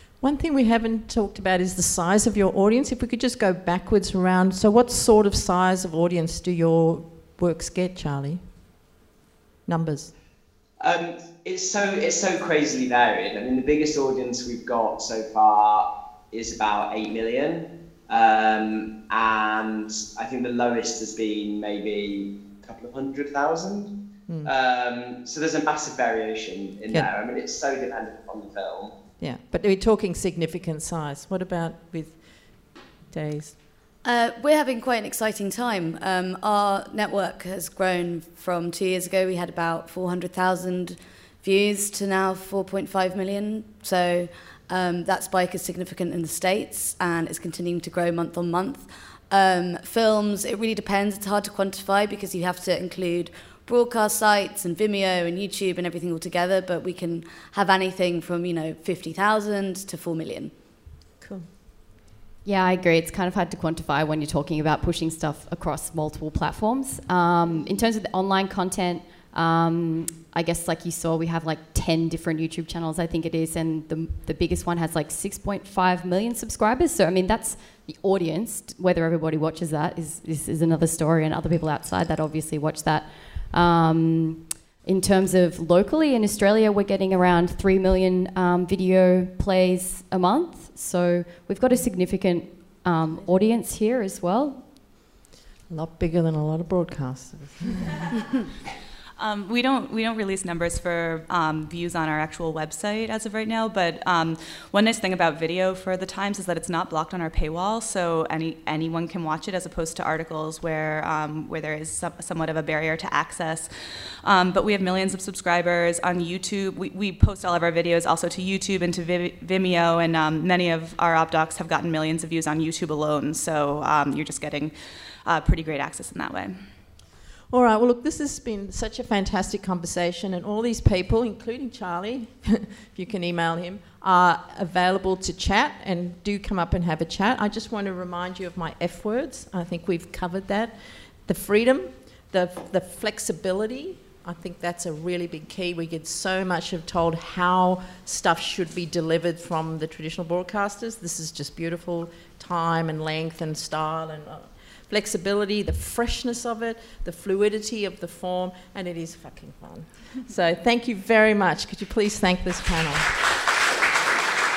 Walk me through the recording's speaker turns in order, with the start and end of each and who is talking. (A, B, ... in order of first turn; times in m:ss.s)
0:00.2-0:08.4 A
0:09.7-0:10.1 A
0:10.8-0:23.9 B
0:24.4-0:28.9 B
0:29.2-0:33.6 A
0:34.0-1:00.5 C
1:01.2-1:01.5 A
1:02.4-1:34.6 D
1:35.7-1:38.1 A
1:39.2-1:53.7 E
1:54.2-2:04.7 E
2:05.2-2:06.6 E
2:07.5-2:43.2 A